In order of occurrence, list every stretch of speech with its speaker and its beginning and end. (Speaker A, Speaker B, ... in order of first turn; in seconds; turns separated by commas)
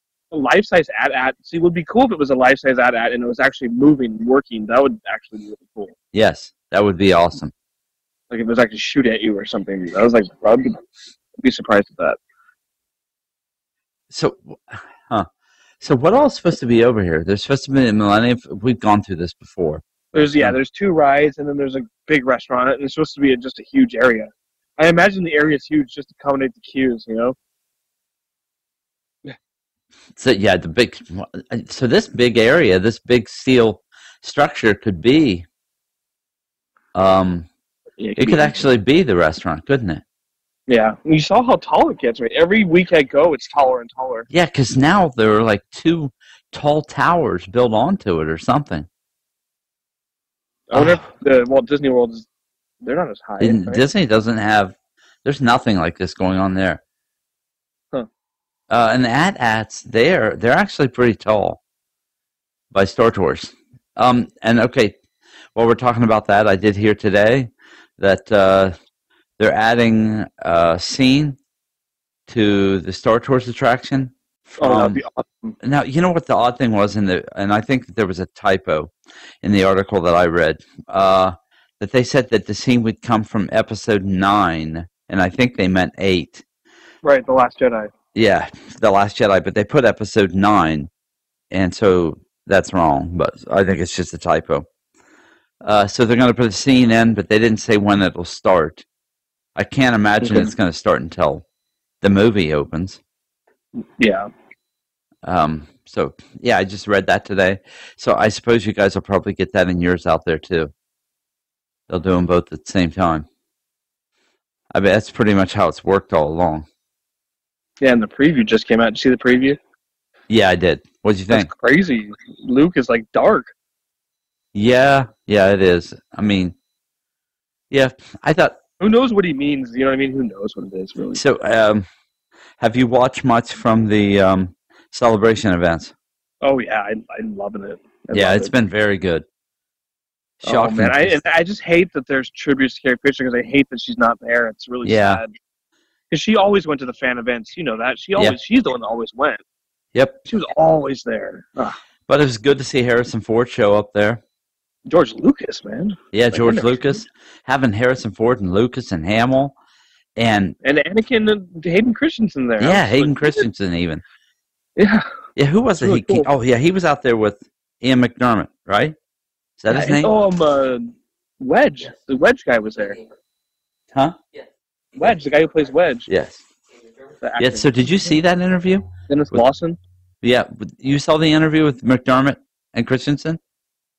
Speaker A: 0.3-6.0, Speaker B: 6.1-7.5, Speaker A: 8.3-10.8, Speaker A: 11.4-12.2, Speaker B: 14.1-15.3, Speaker B: 15.8-20.6, Speaker A: 20.1-27.4, Speaker B: 30.2-35.5, Speaker B: 37.0-37.5, Speaker A: 38.0-38.7, Speaker B: 38.2-40.0, Speaker A: 40.7-44.3, Speaker B: 44.3-48.9, Speaker A: 50.7-52.3, Speaker B: 50.7-51.1, Speaker A: 52.8-53.8, Speaker B: 53.4-56.8, Speaker B: 58.7-61.6, Speaker B: 62.7-65.0, Speaker B: 65.5-68.7, Speaker B: 69.4-71.4, Speaker B: 72.3-75.0, Speaker A: 74.6-75.5, Speaker B: 75.6-86.4, Speaker A: 87.0-87.9, Speaker B: 88.1-90.9, Speaker B: 91.5-94.7, Speaker B: 95.6-98.8, Speaker B: 99.6-101.4, Speaker A: 100.2-100.5, Speaker B: 102.0-103.0, Speaker A: 103.8-104.3, Speaker B: 105.2-110.7, Speaker B: 111.9-113.3, Speaker B: 114.7-116.7, Speaker A: 117.8-119.6, Speaker B: 120.3-121.5, Speaker A: 121.3-123.5, Speaker B: 124.5-126.5, Speaker B: 127.7-128.6, Speaker A: 128.8-131.2, Speaker B: 131.1-131.9, Speaker B: 132.6-135.9, Speaker A: 136.4-138.5, Speaker B: 138.1-139.2, Speaker B: 140.4-141.2, Speaker A: 140.4-145.3, Speaker B: 144.8-145.2, Speaker A: 146.1-149.4, Speaker B: 149.9-150.2, Speaker A: 150.3-151.8, Speaker B: 152.1-154.2, Speaker A: 154.9-157.0, Speaker B: 156.1-159.6, Speaker B: 160.2-160.6, Speaker A: 160.6-163.5, Speaker B: 162.6-164.0, Speaker A: 164.8-165.1, Speaker B: 165.4-168.9, Speaker A: 165.8-166.3, Speaker B: 169.6-170.1, Speaker A: 169.7-173.0, Speaker A: 175.0-176.1, Speaker B: 176.1-176.4, Speaker A: 177.2-178.1, Speaker B: 177.4-179.4, Speaker A: 179.1-179.8, Speaker B: 180.2-183.4